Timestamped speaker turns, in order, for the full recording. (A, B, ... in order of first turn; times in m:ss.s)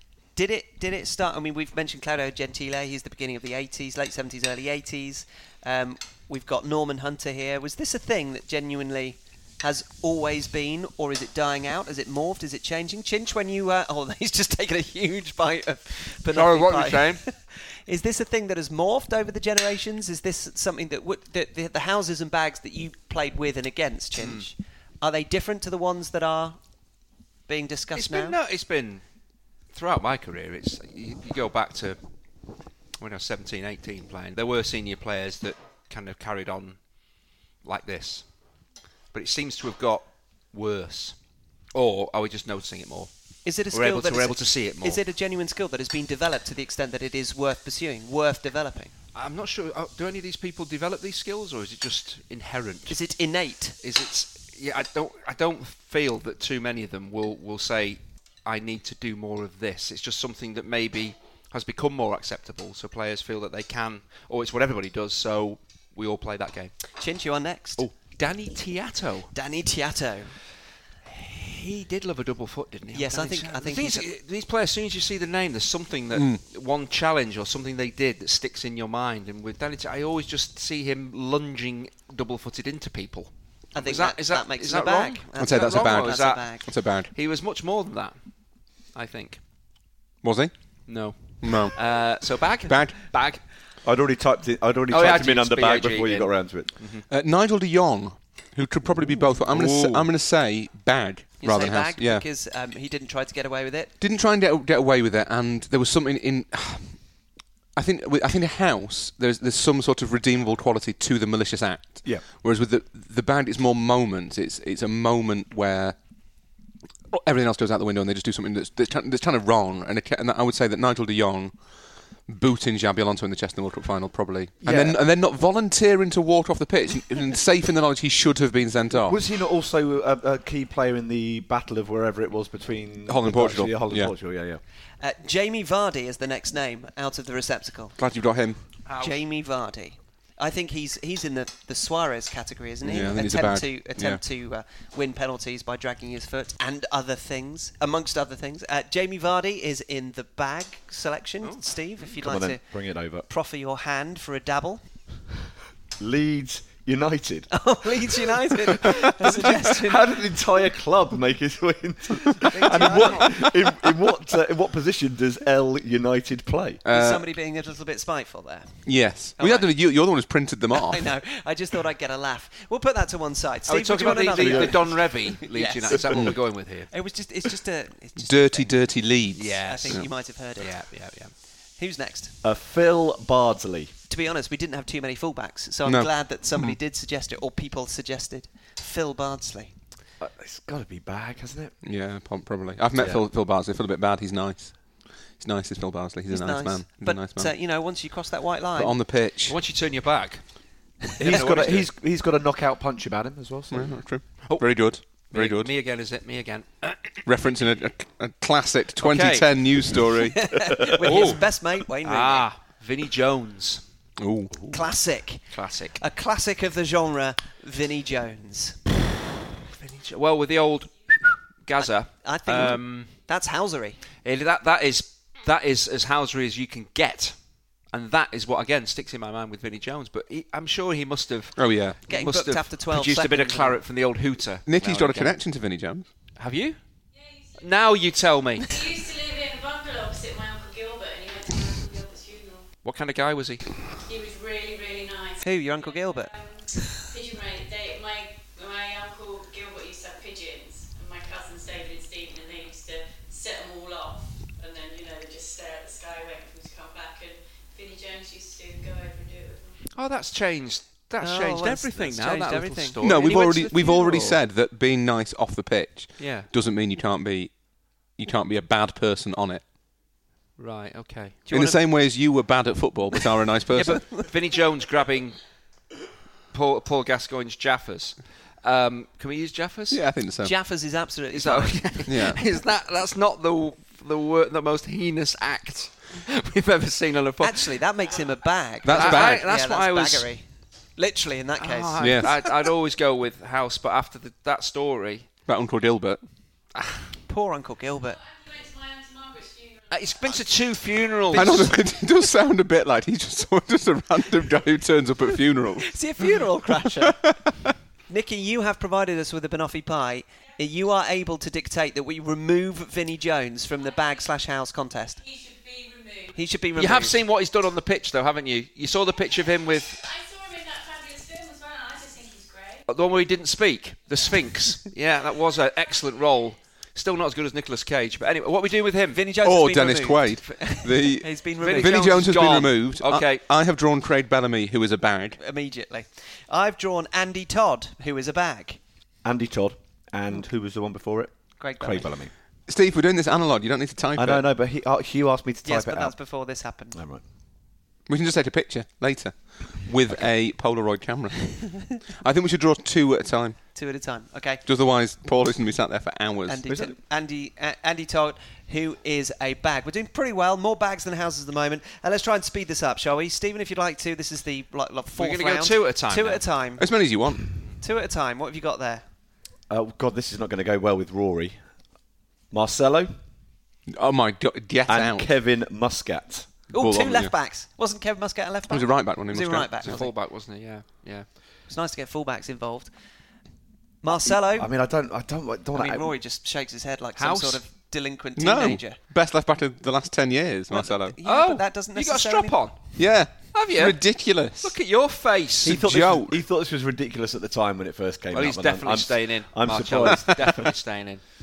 0:00.4-0:26.6 A
0:16.3-0:17.2 B
0:24.2-0:24.5 B
0:27.5-0:28.4 A
0:28.0-0:29.0 B
0:29.7-0:32.0 B
0:33.0-0:36.8 B
0:37.6-0:38.2 B
0:39.1-0:41.2 B
0:41.7-0:43.1 B
0:43.4-0:48.9 A
0:43.7-0:45.0 B
0:49.2-0:53.0 B
0:52.9-0:53.8 A
0:53.8-1:06.8 B
1:07.0-1:07.9 A
1:07.8-1:09.3 B
1:09.3-1:10.4 A
1:11.1-1:28.2 B
1:12.9-1:14.1 A
1:16.1-1:16.4 C
1:23.7-1:26.7 A
1:25.4-1:27.1 C
1:28.9-1:29.4 B
1:30.2-1:30.5 C
1:30.9-1:33.4 B
1:31.4-1:31.8 C
1:32.7-1:33.0 C
1:33.8-1:36.7 D
1:34.9-1:37.1 B
1:37.1-1:42.2 C
1:39.5-1:40.1 B
1:41.4-1:43.9 A
1:44.0-1:47.1 C
1:47.8-1:56.0 C
1:57.1-2:01.6 C
2:02.3-2:09.2 C
2:04.6-2:05.0 D
2:08.9-2:14.6 D
2:13.1-2:14.1 C
2:15.0-2:18.0 A
2:18.0-2:18.6 C
2:18.9-2:19.2 B
2:19.0-2:34.9 A
2:22.8-2:24.2 C
2:32.2-2:33.3 D
2:36.0-2:37.7 D
2:37.5-2:40.2 A
2:38.2-2:46.8 D
2:42.4-2:43.5 A
2:42.8-2:43.2 B
2:46.8-2:47.2 C
2:46.9-2:49.7 A
2:48.9-2:51.1 C
2:50.7-2:58.8 A
2:53.7-2:56.9 B
2:54.3-2:54.9 D
2:58.2-3:00.1 C
2:59.4-3:01.3 B
2:59.6-3:00.8 A
3:01.8-3:02.4 A
3:02.4-3:03.9 D
3:04.1-3:09.7 A
3:05.9-3:06.8 C
3:10.2-3:11.8 D
3:11.8-3:17.5 C
3:13.0-3:13.2 D
3:16.3-3:19.0 A
3:18.8-3:19.6 C
3:19.5-3:20.4 B
3:21.2-3:21.9 B
3:21.2-3:24.0 D
3:23.7-3:25.7 C
3:24.4-3:27.2 B
3:27.2-3:30.5 C
3:29.0-3:29.6 B
3:30.2-3:32.5 A
3:31.0-3:33.8 B
3:34.2-3:34.8 C
3:34.7-3:38.8 A
3:35.5-3:36.0 B
3:39.7-3:43.1 B
3:41.8-3:44.0 A
3:44.2-3:47.4 B
3:47.9-3:55.4 B
3:51.6-3:52.0 C
3:52.1-3:53.8 A
3:54.7-3:56.1 C
3:56.4-3:56.8 B
3:57.2-3:57.6 E
3:57.6-3:58.8 B
3:58.6-4:02.7 E
4:02.8-4:03.8 B
4:04.0-4:19.8 E
4:05.4-4:06.4 A
4:19.9-4:24.4 B
4:21.2-4:23.0 A
4:23.0-4:29.6 C
4:26.2-4:26.5 B
4:30.6-4:31.4 B
4:31.5-4:31.8 A
4:31.5-4:34.1 C
4:33.8-4:34.3 A
4:33.8-4:35.4 B
4:36.5-4:40.0 B
4:39.9-4:40.5 C
4:40.4-4:42.1 A
4:41.3-4:47.8 B
4:42.1-4:42.4 C
4:47.4-4:52.5 A
4:48.8-4:49.4 C
4:48.9-4:50.3 B
4:51.6-4:55.3 B
4:52.0-4:52.3 C
4:55.5-4:56.2 C
4:56.8-4:57.1 B
4:57.3-4:58.2 A
4:58.2-5:00.1 E
4:59.9-5:01.7 B
5:01.3-5:01.8 A
5:01.3-5:06.0 C
5:05.8-5:07.3 A
5:07.0-5:07.7 C
5:08.1-5:15.2 A
5:15.3-5:16.4 E
5:16.3-5:17.2 A
5:16.8-5:20.0 B
5:20.0-5:22.8 E
5:22.9-5:29.2 B
5:29.1-5:32.3 A
5:29.4-5:35.4 C
5:31.6-5:33.4 B
5:35.4-5:38.8 A
5:39.2-5:42.3 D
5:41.6-5:42.1 A
5:42.7-5:44.4 C
5:44.2-5:46.2 D
5:45.6-5:47.0 A
5:46.9-5:47.2 D
5:48.1-5:53.7 C
5:53.8-5:54.6 A
5:54.7-5:56.6 C
5:56.5-6:06.9 A
5:56.7-5:57.0 D
6:05.2-6:06.5 B
6:06.8-6:07.6 C
6:07.8-6:09.0 A
6:09.7-6:11.6 D
6:12.5-6:13.2 D
6:13.9-6:15.3 C
6:14.9-6:16.7 D
6:16.7-6:20.1 A
6:16.8-6:17.3 C
6:18.7-6:20.0 C
6:19.8-6:21.3 B
6:21.7-6:22.9 A
6:24.0-6:24.7 A
6:24.2-6:26.1 D
6:25.8-6:29.0 A
6:27.2-6:27.6 B
6:28.4-6:31.2 C
6:30.7-6:32.6 A
6:31.2-6:35.8 B
6:33.0-6:34.8 C
6:35.6-6:40.8 D
6:35.7-6:36.4 C
6:38.3-6:41.2 B